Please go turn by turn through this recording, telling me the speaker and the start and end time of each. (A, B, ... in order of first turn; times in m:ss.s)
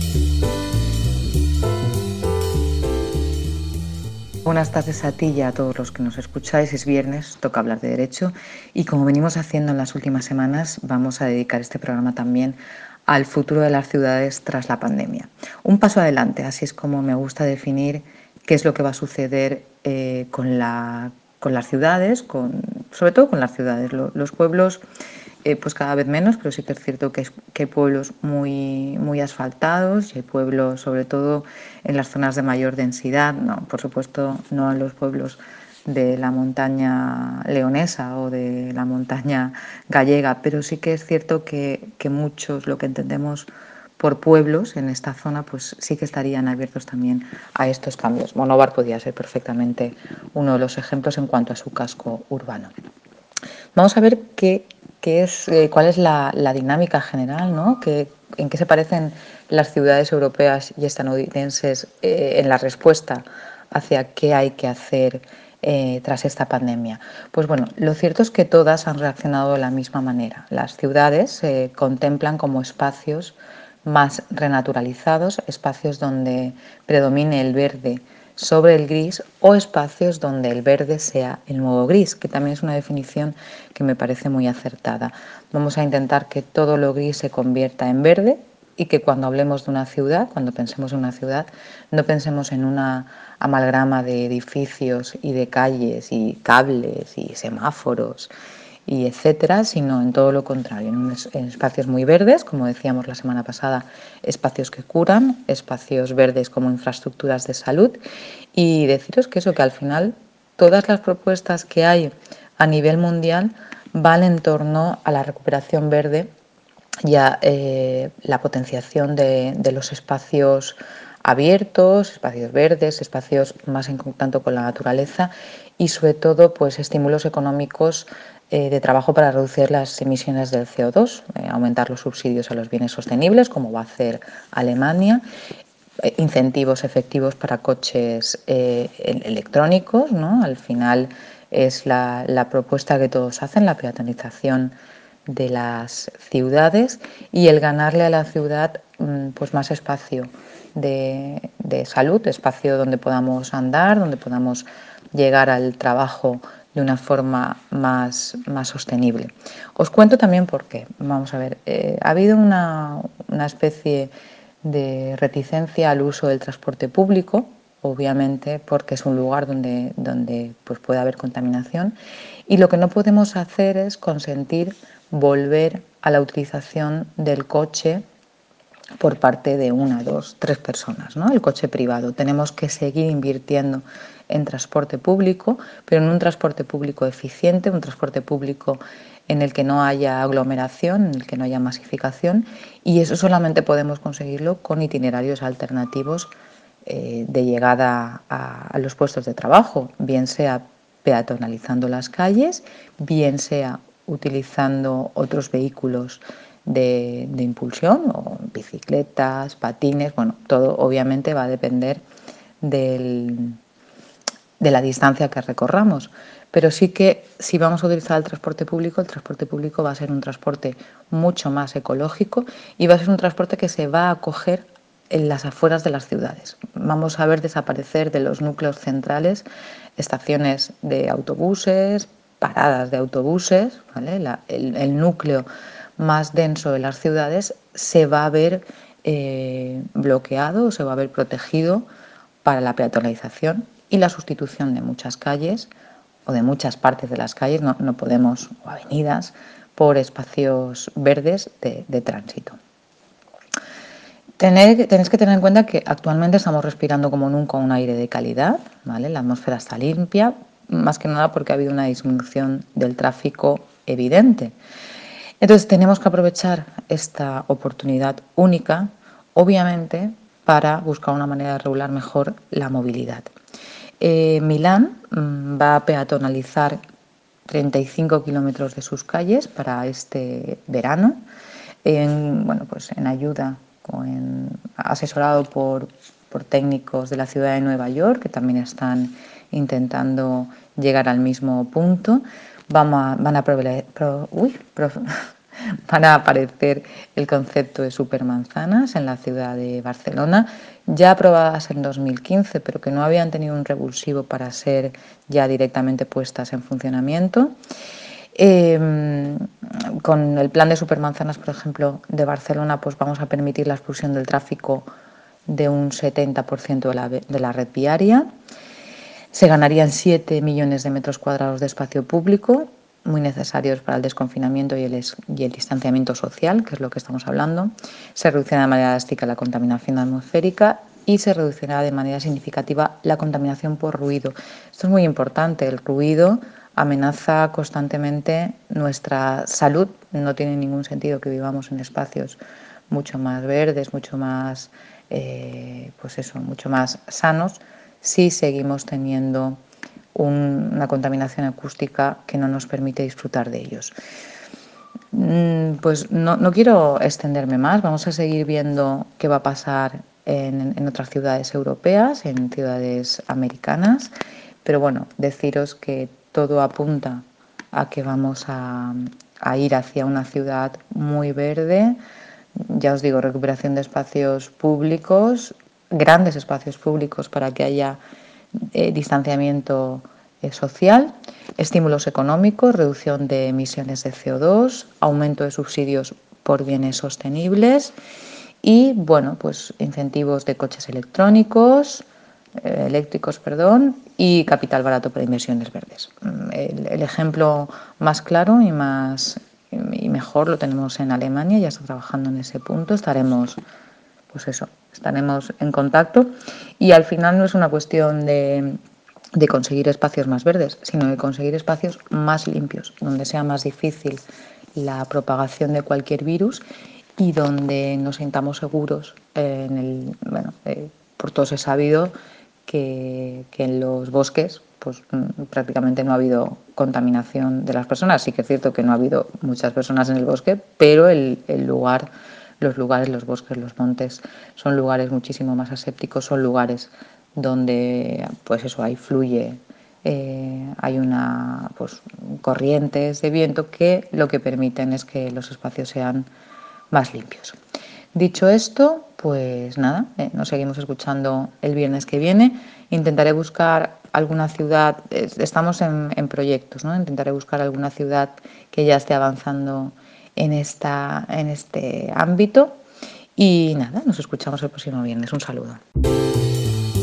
0:04.5-0:24.8 A
0:25.4-0:52.7 A
0:53.8-1:38.3 A
1:38.9-1:48.0 A
1:48.5-1:56.3 A
1:57.0-2:15.2 A
2:16.0-2:24.8 A
2:25.3-2:52.0 A
2:52.5-2:58.0 A
2:59.0-3:16.3 A
3:16.8-3:32.0 A
3:32.6-3:33.6 A
3:34.6-3:49.5 A
3:50.0-3:55.5 A
3:56.0-4:01.9 A
4:02.4-4:05.7 A
4:06.3-4:12.6 A
4:14.4-4:24.6 A
4:25.4-4:33.3 A
4:34.0-4:36.8 A
4:37.5-4:41.2 A
4:41.8-4:55.2 A
4:55.8-5:07.5 A
5:08.3-5:14.9 A
5:15.5-5:18.3 A
5:19.3-5:42.4 A
5:42.9-5:49.6 A
5:50.1-5:53.9 A
5:55.1-6:12.0 A
6:12.6-6:18.0 A
6:18.7-6:27.9 A
6:28.6-6:32.0 A
6:32.6-6:43.6 A
6:44.3-6:48.8 A
6:49.4-6:54.2 A
6:54.8-6:56.6 A
6:57.2-7:02.1 A
7:02.7-7:12.1 A
7:12.6-7:26.3 A
7:26.9-7:27.6 A
7:28.1-7:42.8 A
7:43.4-7:45.8 A